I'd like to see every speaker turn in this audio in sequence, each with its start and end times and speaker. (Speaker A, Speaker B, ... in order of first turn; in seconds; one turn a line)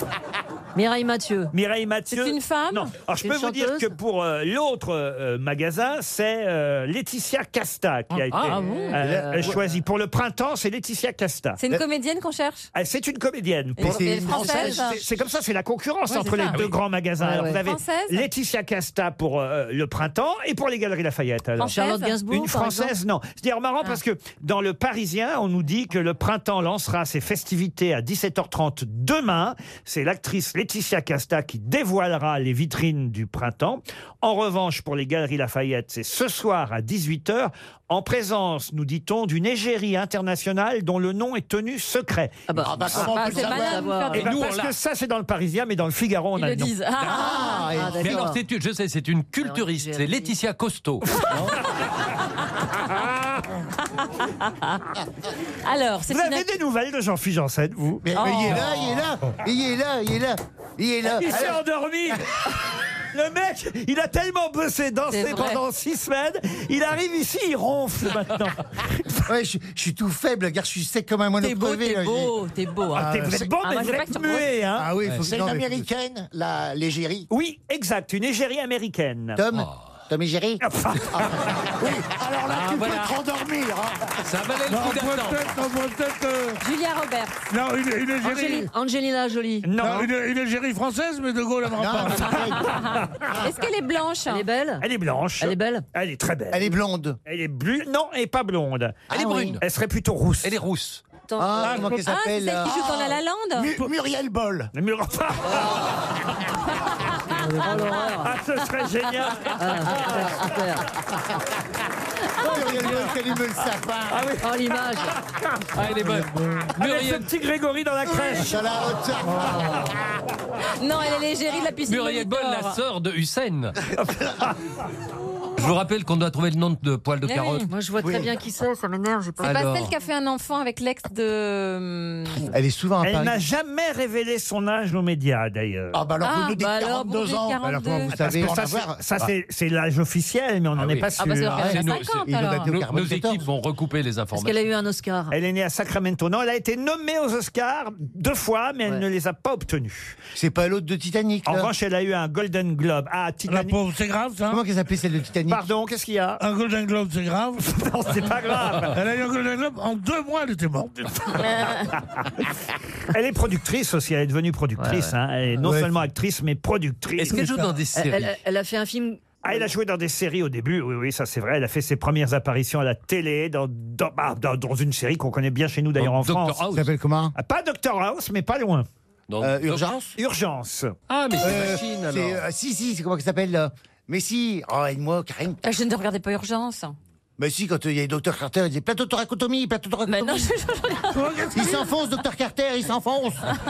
Speaker A: 0.8-1.5
Speaker B: 1.5-11.6
Speaker C: 2.1-2.9
Speaker A: 3.2-3.9
Speaker D: 8.3-8.6
Speaker C: 8.3-9.0
Speaker A: 8.5-9.7
Speaker E: 9.0-9.6
Speaker C: 11.6-12.7
Speaker B: 12.7-21.8
Speaker C: 13.8-15.0
Speaker E: 13.8-15.2
Speaker C: 16.1-16.7
Speaker D: 16.5-16.8
Speaker A: 17.2-17.6
Speaker C: 17.4-18.3
Speaker C: 21.6-22.2
Speaker A: 21.6-22.9
Speaker B: 22.3-42.5
Speaker A: 42.5-44.3
Speaker F: 42.6-44.0
Speaker C: 42.9-44.4
Speaker D: 44.1-44.8
Speaker B: 44.1-46.8
Speaker C: 46.4-47.8
Speaker D: 47.0-47.5
Speaker E: 47.1-48.3
Speaker A: 47.7-48.4
Speaker D: 48.0-51.2
Speaker A: 49.4-50.4
Speaker C: 54.4-54.8
Speaker C: 55.6-56.5
Speaker B: 56.1-58.4
Speaker E: 58.1-62.2
Speaker C: 58.1-58.7
Speaker B: 61.0-62.4
Speaker B: 63.1-69.2
Speaker C: 65.1-65.6
Speaker E: 69.3-72.3
Speaker C: 71.4-74.6
Speaker E: 72.9-73.5
Speaker B: 72.9-74.9
Speaker E: 74.8-75.9
Speaker F: 75.2-77.3
Speaker B: 77.3-79.4
Speaker E: 79.3-80.6
Speaker B: 80.6-81.3
Speaker F: 81.2-84.1
Speaker D: 82.5-83.1
Speaker D: 84.2-85.6
Speaker G: 84.7-86.6
Speaker C: 86.6-87.5
Speaker G: 87.5-88.7
Speaker A: 88.2-90.1
Speaker B: 89.6-90.1
Speaker G: 89.8-92.5
Speaker E: 91.8-92.7
Speaker C: 92.4-94.5
Speaker A: 94.3-94.8
Speaker B: 94.8-96.7
Speaker A: 95.4-95.9
Speaker E: 96.5-97.2
Speaker B: 97.3-99.1
Speaker E: 99.1-99.6
Speaker D: 99.1-99.6
Speaker B: 99.6-100.6
Speaker D: 100.4-101.0
Speaker A: 101.3-102.0
Speaker E: 101.4-103.0
Speaker C: 101.8-103.8
Speaker F: 102.7-104.7
Speaker B: 104.7-105.9
Speaker A: 107.3-108.3
Speaker B: 107.8-110.5
Speaker A: 109.6-110.9
Speaker E: 112.4-114.3
Speaker B: 112.5-113.1
Speaker C: 112.5-112.8
Speaker B: 114.1-115.6
Speaker A: 114.4-115.2
Speaker D: 115.8-117.3
Speaker G: 116.1-116.7
Speaker B: 116.8-118.8
Speaker E: 118.3-119.9
Speaker A: 119.3-119.9
Speaker C: 120.8-122.8
Speaker D: 121.9-123.8
Speaker B: 124.0-124.6
Speaker D: 125.6-127.7
Speaker C: 127.2-127.7
Speaker A: 127.7-129.8
Speaker D: 129.4-129.9
Speaker C: 129.4-132.5
Speaker E: 132.5-133.4
Speaker B: 133.0-136.0
Speaker F: 135.9-137.6
Speaker C: 136.2-138.2
Speaker E: 137.6-139.0
Speaker B: 138.1-141.8
Speaker F: 138.2-138.8
Speaker E: 140.8-143.5
Speaker D: 140.8-144.7
Speaker C: 141.2-142.7
Speaker A: 144.3-145.3
Speaker B: 145.3-150.2
Speaker E: 150.3-151.7
Speaker B: 151.5-153.8
Speaker G: 153.5-154.6
Speaker E: 154.5-155.7
Speaker B: 155.5-156.4
Speaker G: 156.4-157.7
Speaker B: 157.7-159.0
Speaker G: 158.9-161.5
Speaker C: 161.5-161.9
Speaker B: 163.1-167.8
Speaker A: 164.8-165.1
Speaker E: 165.6-166.0
Speaker D: 167.2-168.3
Speaker A: 167.9-169.2
Speaker B: 169.4-176.6
Speaker D: 176.0-176.9
Speaker E: 176.7-177.3
Speaker B: 177.4-178.9
Speaker D: 179.3-179.8
Speaker E: 179.4-180.2
Speaker B: 180.2-180.9
Speaker D: 181.1-182.4
Speaker E: 181.4-185.7
Speaker C: 185.6-187.0
Speaker E: 187.4-190.5
Speaker C: 190.1-191.8
Speaker G: 191.1-191.8
Speaker E: 191.5-193.5